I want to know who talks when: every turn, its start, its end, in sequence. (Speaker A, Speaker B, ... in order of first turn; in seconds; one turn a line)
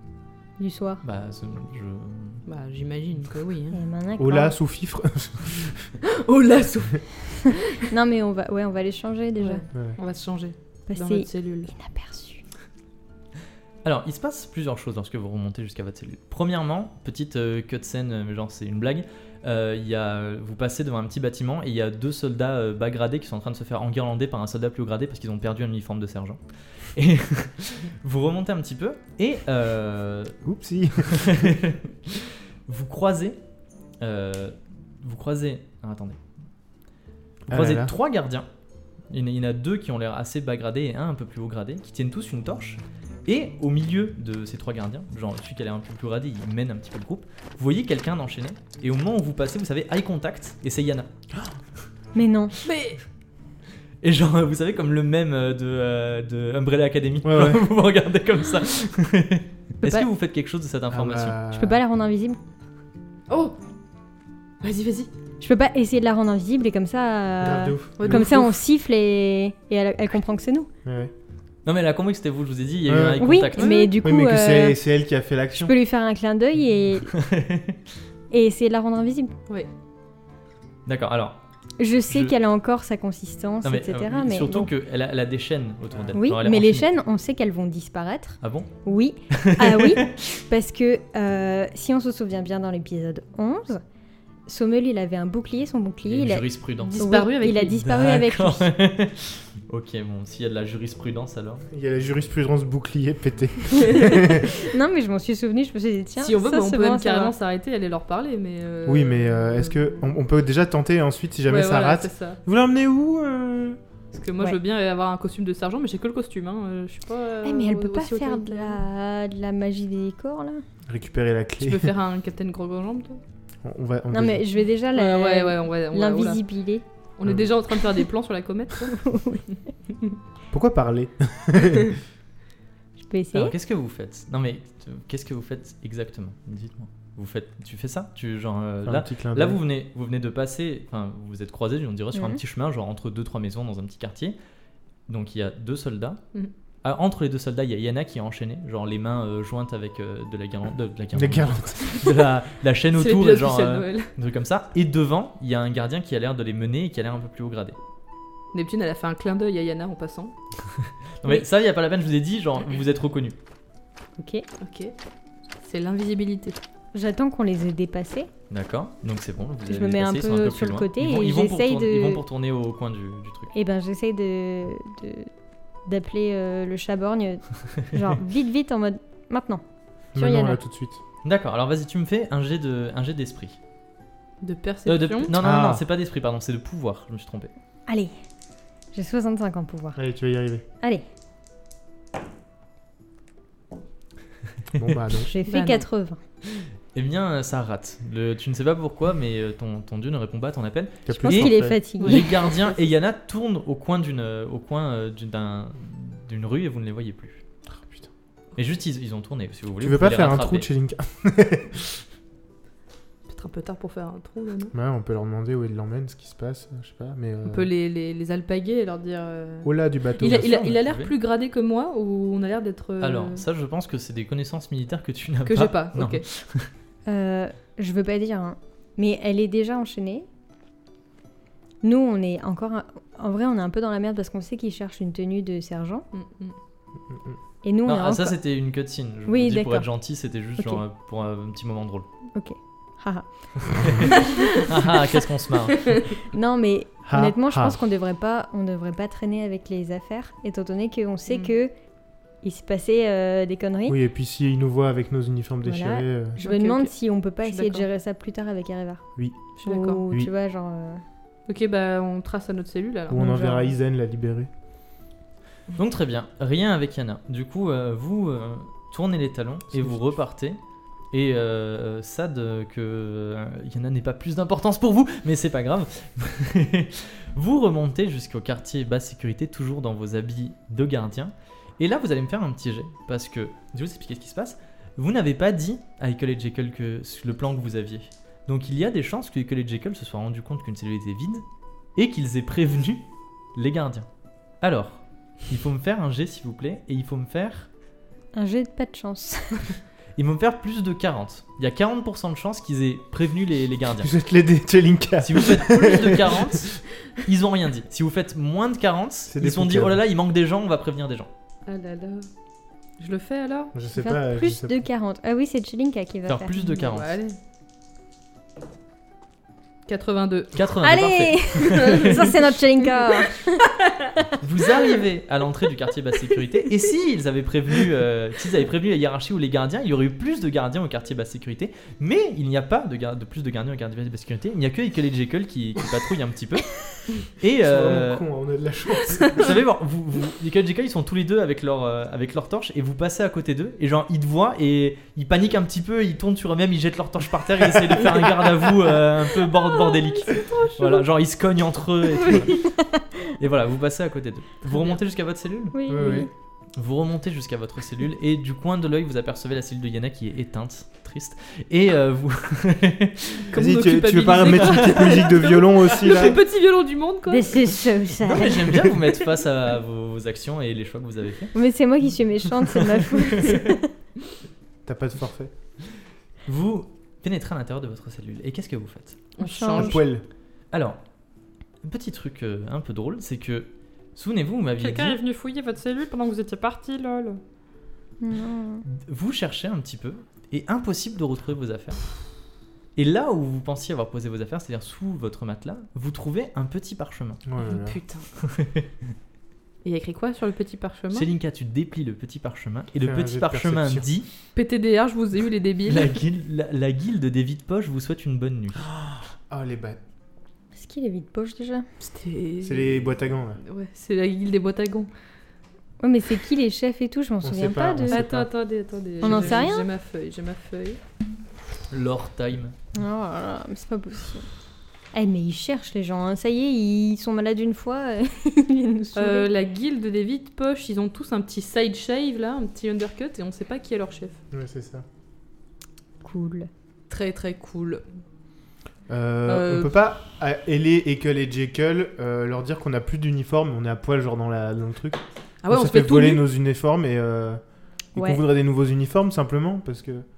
Speaker A: 0.6-1.0
Speaker B: 1.0-2.4
Speaker C: 2.5-3.8
Speaker A: 3.7-4.5
Speaker D: 4.2-5.9
Speaker C: 6.0-7.9
Speaker A: 7.9-9.6
Speaker C: 9.4-11.7
Speaker A: 10.9-12.4
Speaker B: 13.8-30.4
Speaker D: 30.4-31.6
Speaker B: 31.0-33.4
Speaker B: 34.0-36.2
Speaker D: 37.5-37.9
Speaker B: 37.5-38.5
Speaker B: 39.1-51.1
Speaker A: 52.1-52.5
Speaker C: 52.6-53.0
Speaker B: 54.0-61.4
Speaker D: 57.2-57.7
Speaker D: 60.9-61.8
Speaker A: 61.5-62.4
Speaker C: 63.3-63.5
Speaker C: 64.6-65.1
Speaker A: 65.4-70.7
Speaker D: 67.4-68.5
Speaker C: 68.0-68.5
Speaker D: 70.8-71.1
Speaker B: 71.6-73.8
Speaker D: 72.9-73.3
Speaker A: 73.2-74.8
Speaker C: 73.5-74.0
Speaker D: 74.0-75.7
Speaker A: 75.5-77.2
Speaker B: 77.1-77.8
Speaker A: 78.3-79.3
Speaker B: 80.8-81.4
Speaker A: 81.8-84.7
Speaker B: 82.1-82.3
Speaker B: 83.6-86.9
Speaker D: 85.9-86.2
Speaker A: 86.1-93.8
Speaker B: 88.4-88.7
Speaker B: 89.3-90.1
Speaker A: 94.5-98.7
Speaker B: 96.0-101.6
Speaker C: 96.8-97.8
Speaker D: 101.7-104.5
Speaker C: 103.8-104.2
Speaker A: 104.5-107.3
Speaker C: 106.2-109.9
Speaker D: 108.8-113.8
Speaker C: 111.5-112.4
Speaker C: 114.1-118.8
Speaker A: 117.4-120.6
Speaker D: 120.9-121.9
Speaker C: 121.6-123.2
Speaker D: 123.6-124.4
Speaker A: 124.1-126.8
Speaker C: 124.9-126.4
Speaker C: 127.2-129.4
Speaker A: 129.1-129.4
Speaker D: 130.5-131.9
Speaker A: 133.0-133.5
Speaker B: 133.3-144.4
Speaker D: 138.8-139.6
Speaker A: 142.1-142.4
Speaker B: 145.1-146.2
Speaker B: 146.8-157.8
Speaker D: 151.1-152.0
Speaker C: 153.0-154.1
Speaker C: 158.5-160.3
Speaker B: 160.8-163.3
Speaker A: 164.2-164.4
Speaker C: 164.6-164.9
Speaker C: 165.6-166.6
Speaker A: 166.9-168.3
Speaker B: 168.5-173.5
Speaker A: 169.7-172.2
Speaker A: 173.5-175.3
Speaker A: 175.8-179.6
Speaker D: 180.1-181.0
Speaker A: 180.2-180.6
Speaker B: 181.2-183.6
Speaker C: 184.4-185.3
Speaker B: 184.8-187.5
Speaker D: 185.3-185.8
Speaker A: 188.9-190.0
Speaker D: 189.9-190.6
Speaker D: 194.7-195.3
Speaker A: 195.2-196.2
Speaker C: 195.5-195.8
Speaker B: 196.5-207.4
Speaker D: 201.1-201.8
Speaker A: 201.1-202.4
Speaker C: 202.0-202.6
Speaker D: 207.8-208.1
Speaker B: 208.6-210.7
Speaker D: 209.8-212.0
Speaker C: 213.3-214.7
Speaker D: 214.7-217.7
Speaker C: 217.4-223.4
Speaker D: 219.6-220.5
Speaker B: 220.2-221.1
Speaker B: 223.0-226.7
Speaker C: 225.4-226.2
Speaker A: 227.1-230.3
Speaker A: 231.8-236.1
Speaker C: 236.1-236.5
Speaker D: 237.1-237.4
Speaker A: 237.6-238.4
Speaker B: 237.8-242.1
Speaker A: 239.3-239.9
Speaker A: 242.3-243.9
Speaker B: 243.8-245.9
Speaker A: 246.2-251.7
Speaker D: 247.1-247.8
Speaker C: 251.3-251.6
Speaker A: 252.4-254.0
Speaker D: 253.9-256.4
Speaker A: 255.6-259.1
Speaker C: 256.4-256.9
Speaker C: 257.4-257.8
Speaker A: 259.6-261.0
Speaker C: 259.6-260.0
Speaker C: 261.5-263.4
Speaker D: 263.1-264.5
Speaker A: 263.1-263.7
Speaker B: 265.7-270.6
Speaker D: 269.7-270.0
Speaker B: 271.1-291.4
Speaker B: 291.9-294.1
Speaker B: 294.6-297.7
Speaker A: 298.3-299.7
Speaker B: 300.2-304.1
Speaker D: 304.0-306.5
Speaker B: 305.2-311.3
Speaker D: 309.3-310.0
Speaker C: 311.6-312.3
Speaker C: 313.0-313.7
Speaker D: 313.7-314.8
Speaker A: 313.9-316.5
Speaker B: 316.3-317.1
Speaker C: 316.6-317.4
Speaker C: 319.9-320.6
Speaker B: 320.5-322.3
Speaker A: 320.8-323.6
Speaker C: 321.7-323.9
Speaker B: 324.4-338.2
Speaker D: 337.6-339.5
Speaker B: 339.3-352.6
Speaker C: 349.3-351.1
Speaker C: 352.1-352.6
Speaker A: 352.7-353.0
Speaker B: 353.4-355.7
Speaker C: 354.7-354.9
Speaker A: 355.7-356.3
Speaker D: 355.9-356.3
Speaker B: 356.8-363.5
Speaker C: 363.5-367.8
Speaker D: 363.5-366.4
Speaker B: 364.6-365.2
Speaker A: 367.3-368.9
Speaker B: 368.2-371.6
Speaker A: 371.5-373.9
Speaker B: 373.0-373.8
Speaker D: 374.8-375.5
Speaker B: 376.4-379.2
Speaker C: 379.4-380.0
Speaker A: 379.4-380.0
Speaker D: 379.7-380.2
Speaker B: 380.7-381.0
Speaker B: 381.8-385.2
Speaker C: 384.8-387.4
Speaker A: 388.2-388.8
Speaker B: 388.9-392.0
Speaker B: 392.9-397.4
Speaker D: 397.4-398.0
Speaker C: 397.6-398.3
Speaker B: 398.4-398.9
Speaker C: 399.8-401.3
Speaker B: 401.1-404.3
Speaker D: 403.0-404.1
Speaker C: 404.5-406.2
Speaker B: 405.9-408.9
Speaker D: 408.8-410.0
Speaker A: 410.7-411.9
Speaker C: 412.0-415.1
Speaker D: 412.6-413.6
Speaker A: 416.0-418.3
Speaker D: 417.4-418.5
Speaker C: 418.1-421.0
Speaker A: 419.2-419.9
Speaker B: 421.9-422.7
Speaker A: 422.9-424.5
Speaker A: 425.1-429.5
Speaker C: 429.1-434.4
Speaker D: 434.5-435.0
Speaker A: 436.2-436.7
Speaker C: 437.1-438.0
Speaker D: 439.1-447.6
Speaker C: 439.4-439.9
Speaker C: 445.6-446.4
Speaker D: 448.1-450.2
Speaker A: 448.1-448.4